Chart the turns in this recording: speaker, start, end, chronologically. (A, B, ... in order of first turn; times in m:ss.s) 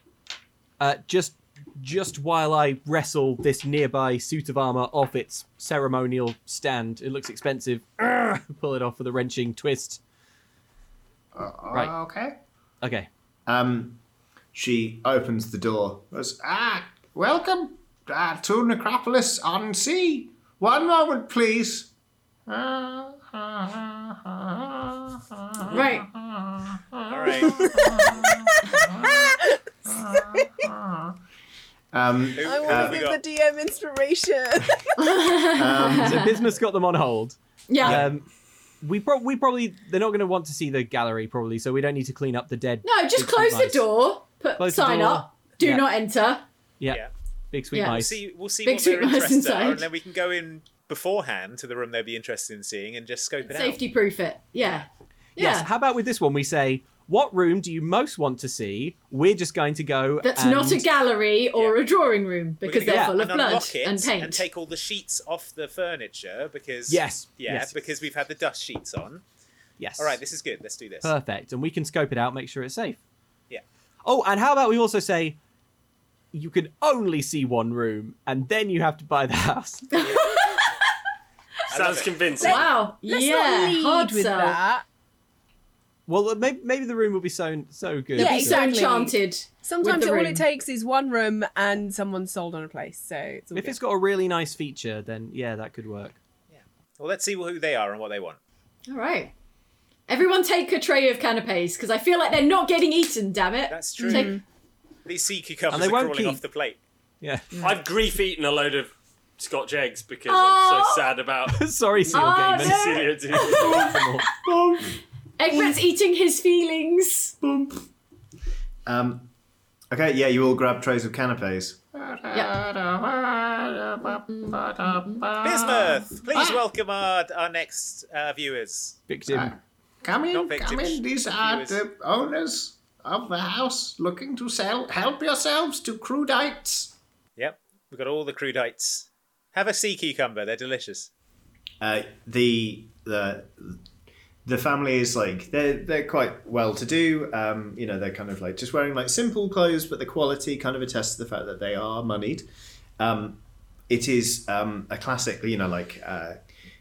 0:00.8-0:10.0 A
0:11.4-0:12.4 B
0:12.8-0:13.1 A
0:13.5-0:14.0 B
0:14.5-0:21.9 B
0:22.5-0:29.3 B
0:25.7-0:26.1 C
0:27.1-0:27.7 D
0:29.9-0:31.1 B
0:31.9-0:33.0 B
0:32.4-0:33.2 D
0:32.4-0:34.8 E
0:35.0-0:36.3 C
0:35.6-0:36.4 B
0:36.0-0:38.3 A
0:37.7-0:38.0 C
0:38.8-0:43.9 A
0:42.8-0:46.4 C
0:44.6-0:45.9 A
0:46.8-0:48.2 A
0:47.7-0:48.0 C
0:47.9-0:53.8 D
0:48.6-0:49.9 C
0:53.4-0:55.7 C
0:55.4-1:00.9 A
1:00.2-1:04.5 C
1:02.6-1:09.2 D
1:02.8-1:03.2 A
1:06.9-1:07.7 A
1:09.8-1:10.2 A
1:10.0-1:11.1 D
1:11.0-1:13.0 A
1:14.0-1:15.4 A
1:16.3-1:20.1 A
1:20.0-1:20.8 C
1:21.7-1:22.5 D
1:21.7-1:22.7 F
1:22.4-1:24.8 E
1:22.4-1:24.6 C
1:26.1-1:28.6 A
1:28.1-1:33.8 E
1:28.2-1:30.4 C
1:33.5-1:36.2 A
1:36.5-1:38.4 D
1:38.9-1:39.3 C
1:40.1-1:44.4 C
1:43.7-1:44.4 D
1:44.0-1:44.4 E
1:45.1-1:46.8 D
1:45.7-1:46.4 A
1:47.2-1:47.7 A
1:47.6-1:51.6 F
1:50.3-1:51.1 C
1:51.5-1:54.3 A
1:52.1-1:54.3 C
1:52.3-1:53.9 F
1:53.6-1:55.0 B
1:55.4-1:57.3 C
1:57.4-1:57.9 B
1:58.9-1:59.3 B
1:59.9-2:06.6 B
2:05.4-2:09.0 D
2:09.1-2:09.6 A
2:09.3-2:16.9 B
2:10.3-2:11.8 D
2:17.4-2:21.1 D
2:21.8-2:23.8 B
2:24.4-2:32.5 B
2:33.0-2:36.4 B